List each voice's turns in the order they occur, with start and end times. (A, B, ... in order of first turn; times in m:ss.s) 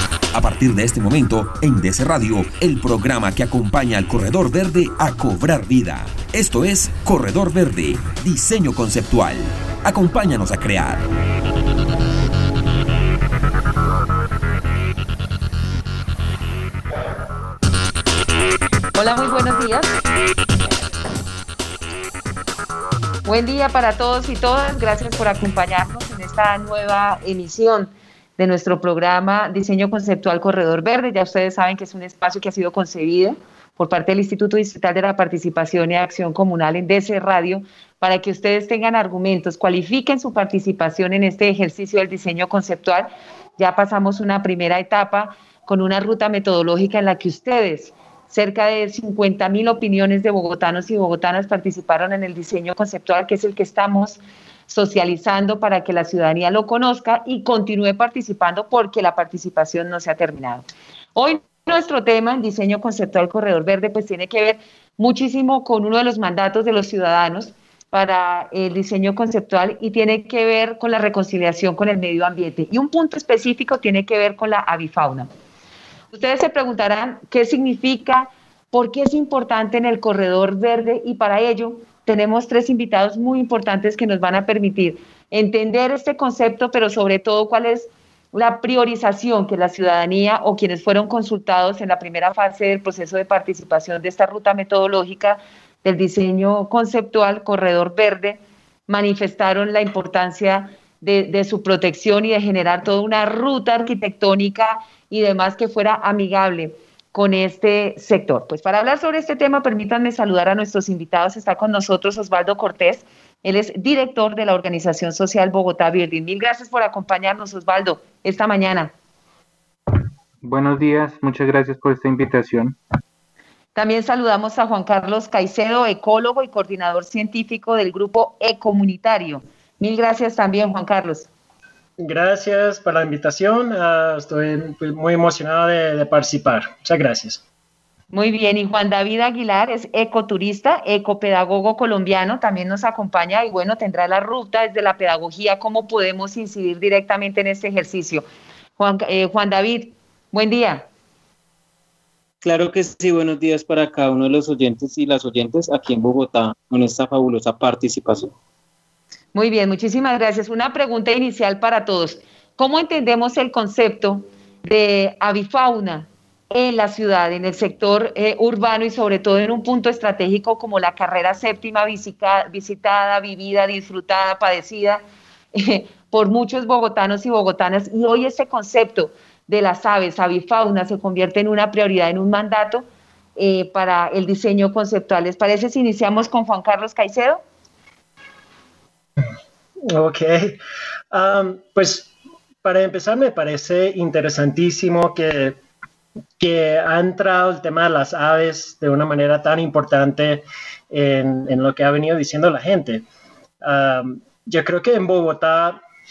0:00.3-0:11.0 A
0:18.9-0:19.9 B
0:23.2-1:15.3 B
1:16.1-1:58.9 B
2:00.4-2:02.8 C
2:03.7-2:11.3 B
2:12.0-2:17.4 D
2:18.1-2:28.2 B
2:28.8-2:30.8 B
2:32.4-2:38.3 E
2:39.3-2:55.0 B
2:55.5-3:02.8 B
3:03.4-3:07.4 B
3:09.8-3:10.6 D
3:11.1-3:12.1 D
3:12.6-3:15.6 D
3:16.4-3:23.0 D
3:23.6-3:25.8 D